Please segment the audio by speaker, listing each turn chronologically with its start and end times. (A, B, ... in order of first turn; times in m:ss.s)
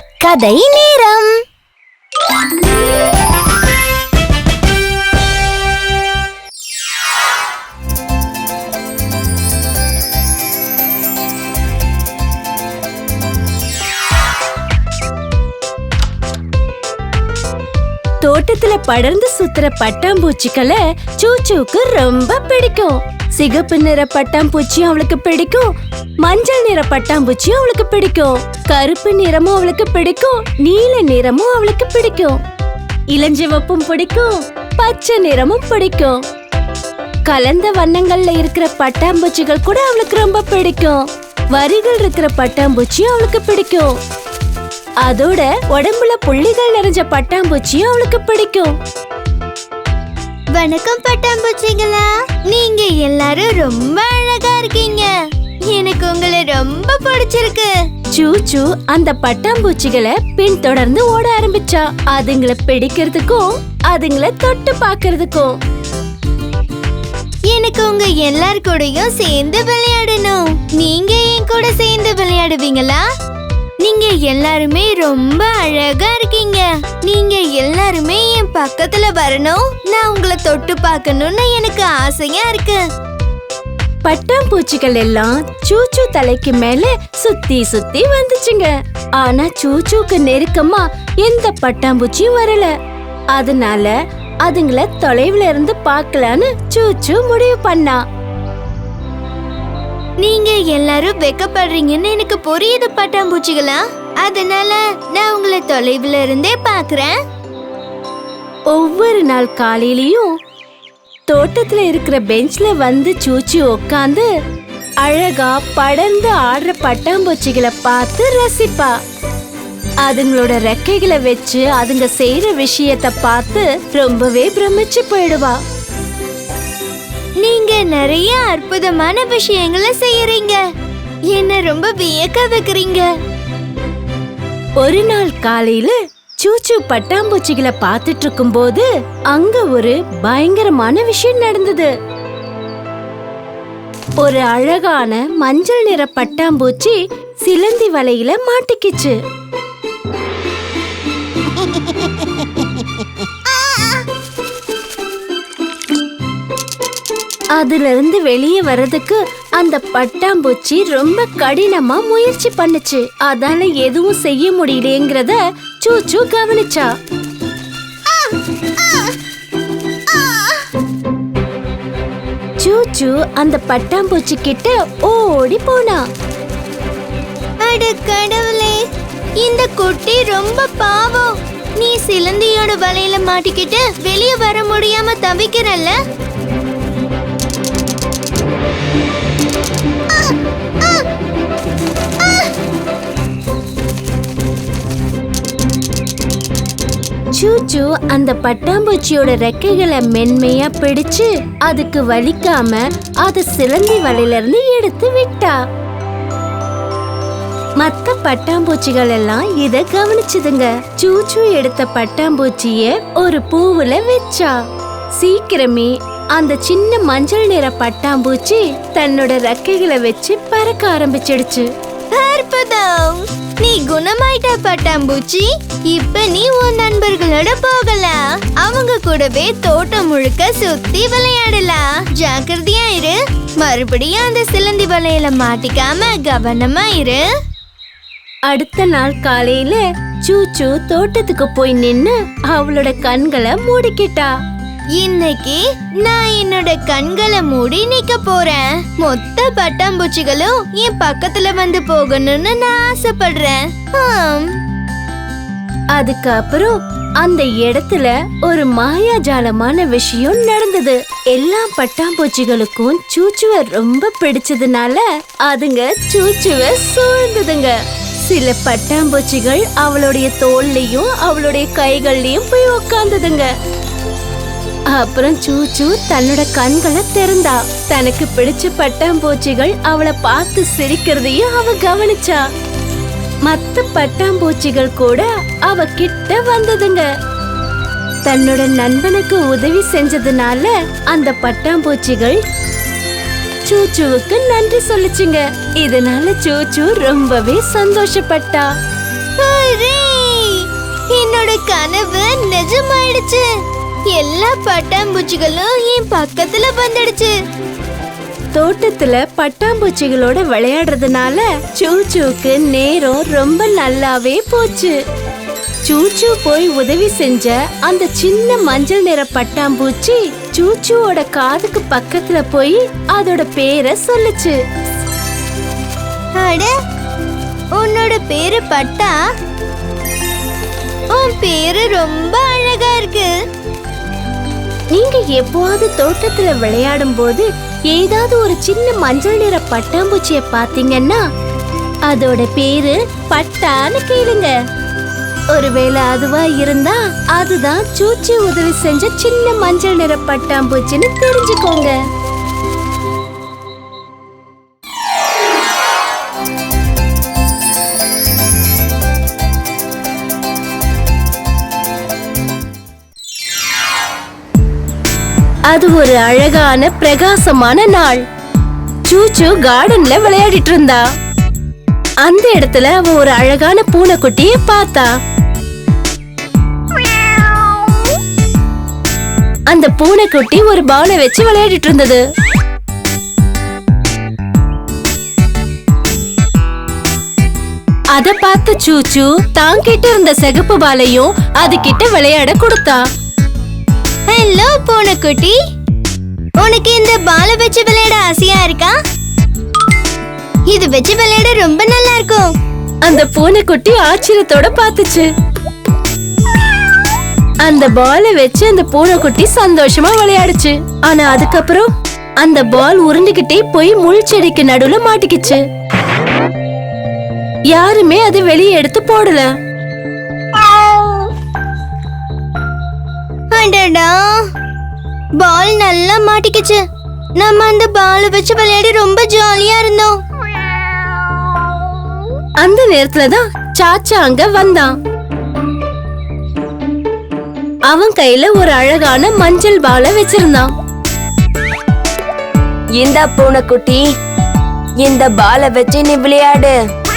0:00.2-0:01.3 A
0:18.2-0:32.4 B
0:33.1-0:36.2 B
0:37.3-0:43.9 B
0:45.0-0:48.7 B
0:50.6-0:55.1 A
0:55.7-0:57.7 A
0:58.1-1:05.6 B
1:07.5-1:13.0 A
1:13.8-1:22.8 A
1:24.0-1:32.7 B
1:33.3-1:38.0 B
1:40.2-1:47.1 A
1:48.7-1:50.3 B
1:51.3-1:54.3 B
1:55.0-1:58.9 B
2:00.0-2:05.6 B
2:07.4-2:10.6 A
2:11.3-2:13.1 A
2:14.8-2:21.9 B
2:24.2-2:29.2 B
2:37.6-2:46.9 B
2:48.8-2:49.1 A
2:50.1-2:50.5 A
2:52.6-2:56.0 B
2:57.6-2:58.8 A
2:59.4-3:06.0 A
3:10.1-3:11.1 A
3:12.2-3:12.5 A
3:17.3-3:25.6 B
3:27.8-3:34.5 B
3:35.2-3:41.7 B
3:42.1-3:57.2 A
3:58.5-4:04.3 B
4:05.0-4:14.5 A
4:15.9-4:33.5 B
4:34.9-4:42.4 B
4:43.4-4:47.0 B
4:48.2-4:52.4 B
4:53.6-4:58.6 B
4:59.4-5:03.4 A
5:04.1-5:07.3 A
5:08.5-5:15.0 B
5:15.8-5:24.6 B
5:26.4-5:26.7 A
5:27.8-5:29.2 A
5:31.1-5:33.3 A
5:34.9-5:41.2 B
5:42.1-5:44.5 B
5:45.5-5:52.0 B
6:05.7-6:08.2 B
6:09.0-6:11.0 B
6:12.2-6:15.1 B
6:19.7-6:22.2 B
6:28.1-6:33.0 B
6:34.3-6:35.5 A
6:36.6-6:38.9 A
6:40.7-6:42.5 A
6:43.0-6:45.3 B
6:47.6-6:51.9 B
6:52.4-6:55.6 B
6:57.7-6:59.5 B
7:00.6-7:01.3 A
7:03.5-7:04.1 A
7:05.4-7:06.8 A
7:07.4-7:10.1 A
7:12.6-7:14.9 B
7:17.9-7:20.7 B
7:23.0-7:24.0 C
7:25.0-7:26.8 C